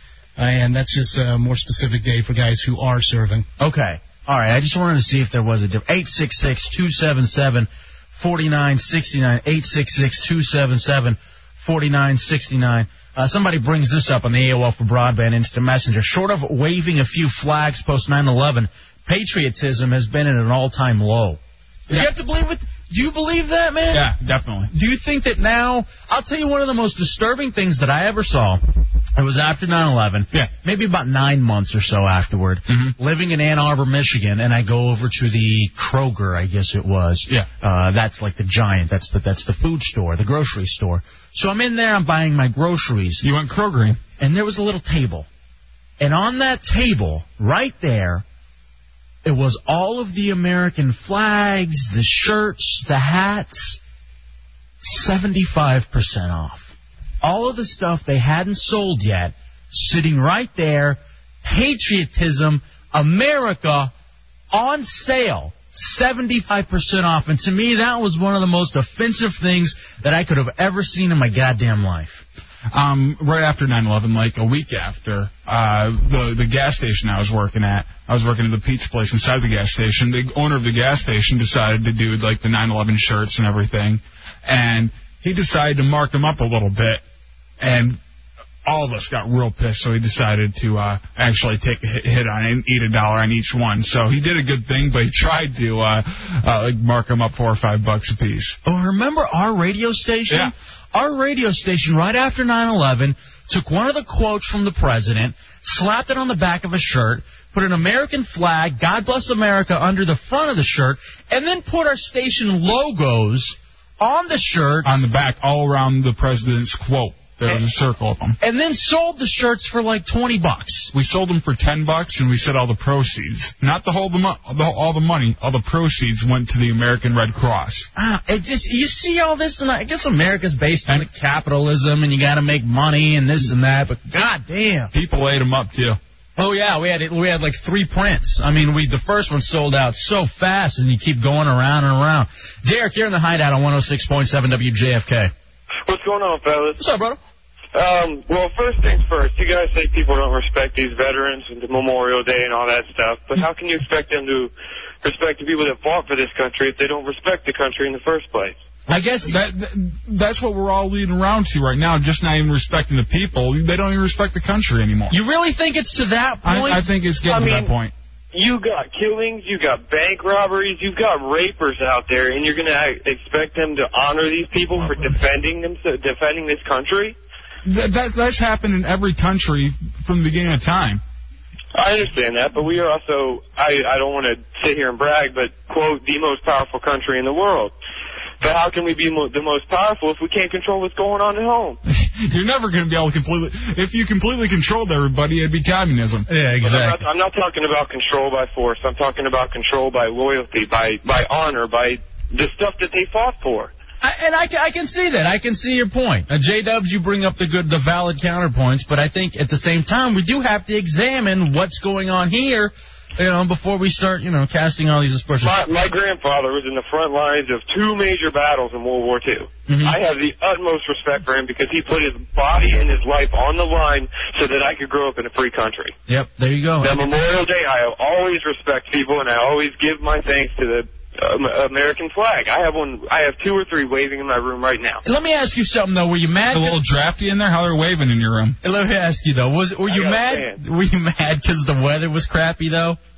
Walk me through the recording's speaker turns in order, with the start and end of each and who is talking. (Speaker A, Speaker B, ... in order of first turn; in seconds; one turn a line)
Speaker A: 0.4-3.5
Speaker B: 3.6-24.1
Speaker C: 23.9-24.7
Speaker B: 24.7-28.6
Speaker B: 29.2-43.2
Speaker C: 32.7-33.0
Speaker C: 43.2-44.0
Speaker B: 44.2-45.3
Speaker B: 46.0-48.2
Speaker B: 49.2-53.8
Speaker B: 54.8-63.9
Speaker B: 64.5-72.2
Speaker C: 72.7-87.0
Speaker C: 87.6-88.0
Speaker C: 88.7-98.6
Speaker B: 98.7-115.0
Speaker C: 114.8-118.4
Speaker B: 118.4-120.9
Speaker C: 120.9-127.9
Speaker B: 128.0-134.9
Speaker C: 134.9-136.0
Speaker B: 136.4-145.3
Speaker D: 145.9-146.8
Speaker B: 146.8-147.2
Speaker D: 147.7-158.6
Speaker B: 158.9-159.4
Speaker C: 159.2-165.2
Speaker B: 165.1-166.8
Speaker C: 166.4-167.9
Speaker D: 167.3-167.7
Speaker D: 168.3-177.2
Speaker C: 177.7-181.0
Speaker D: 181.7-187.7
Speaker D: 188.4-191.8
Speaker C: 191.9-196.3
Speaker B: 196.3-197.0
Speaker D: 196.6-203.7
Speaker B: 204.0-215.6
Speaker D: 215.4-225.9
Speaker B: 219.7-220.0
Speaker B: 226.1-227.0
Speaker D: 226.8-235.0
Speaker B: 235.1-236.8
Speaker C: 236.5-238.6
Speaker B: 238.6-243.0
Speaker D: 239.9-240.6